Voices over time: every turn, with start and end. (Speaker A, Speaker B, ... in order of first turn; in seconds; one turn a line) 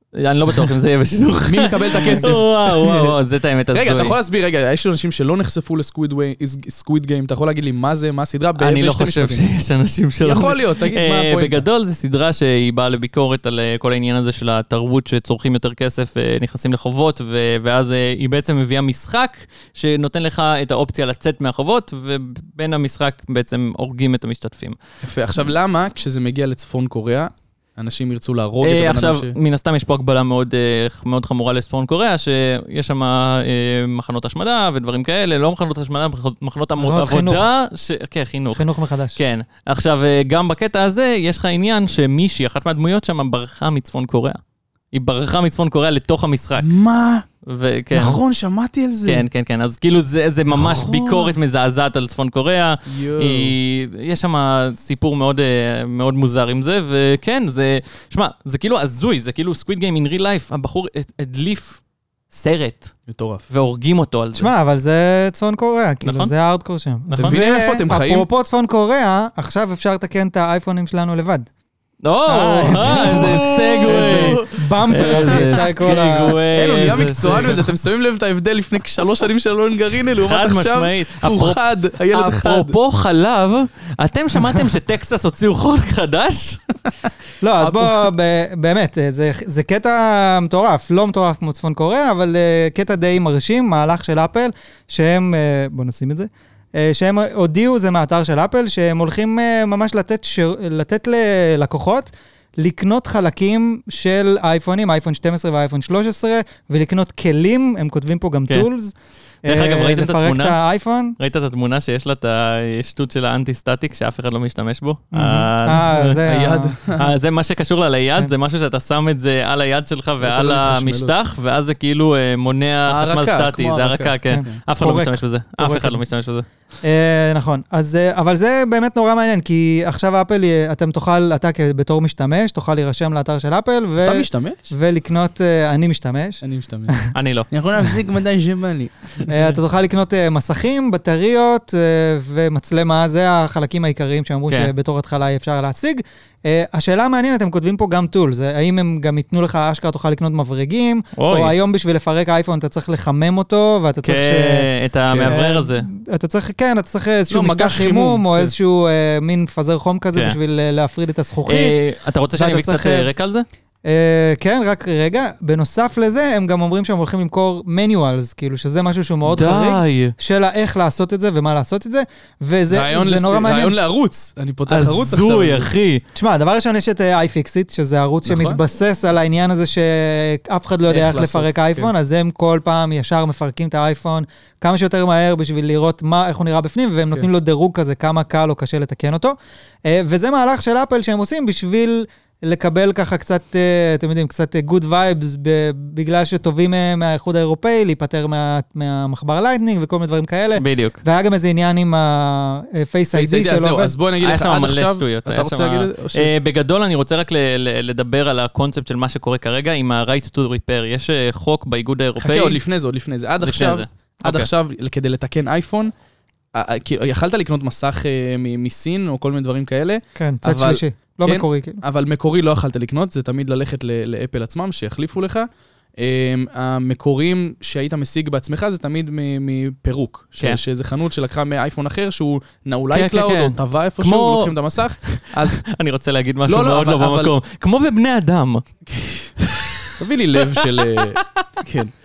Speaker A: 0.2-4.2
Speaker B: 1.5-3.2
Speaker B: 3.7-9.4
Speaker A: 8.6-24.8
Speaker B: 10.2-11.7
Speaker B: 25.0-29.4
Speaker A: 28.6-44.4
Speaker C: 36.8-37.5
Speaker C: 38.5-39.2
Speaker A: 44.9-46.7
Speaker B: 46.6-47.2
Speaker A: 47.5-48.2
Speaker B: 47.9-49.2
Speaker A: 49.0-62.9
Speaker B: 50.5-51.4
Speaker B: 52.9-53.6
Speaker B: 63.1-63.5
Speaker A: 63.5-64.5
Speaker C: 64.4-71.5
Speaker A: 66.0-66.3
Speaker A: 67.1-67.4
Speaker B: 67.2-68.3
Speaker A: 72.0-77.7
Speaker C: 72.3-76.4
Speaker B: 72.7-75.9
Speaker B: 76.5-82.8
Speaker A: 80.2-86.6
Speaker C: 87.4-111.2
Speaker B: 87.6-88.1
Speaker A: 109.5-110.6
Speaker A: 111.2-116.2
Speaker C: 115.1-116.8
Speaker B: 116.3-117.1
Speaker A: 117.0-126.5
Speaker B: 120.2-121.1
Speaker B: 122.9-124.6
Speaker C: 124.3-126.0
Speaker C: 126.8-137.1
Speaker B: 134.0-134.7
Speaker B: 136.4-139.3
Speaker A: 137.1-137.5
Speaker C: 139.3-154.7
Speaker A: 151.2-151.5
Speaker A: 154.0-155.9
Speaker B: 155.1-155.4
Speaker C: 155.3-161.8
Speaker B: 157.3-158.5
Speaker A: 161.5-163.5
Speaker C: 162.4-163.1
Speaker C: 163.8-173.8
Speaker A: 169.3-170.2
Speaker B: 172.7-175.7
Speaker A: 174.7-176.0
Speaker C: 176.2-203.9
Speaker B: 178.3-178.6
Speaker B: 180.9-181.9
Speaker A: 200.6-201.0
Speaker B: 203.1-206.3
Speaker A: 204.2-212.6
Speaker B: 212.2-215.9
Speaker A: 213.4-214.5
Speaker B: 216.5-235.6
Speaker C: 220.2-221.8
Speaker A: 232.9-238.7
Speaker B: 236.5-237.3
Speaker B: 238.9-239.3
Speaker A: 239.4-240.0
Speaker B: 240.0-241.9
Speaker A: 240.6-241.4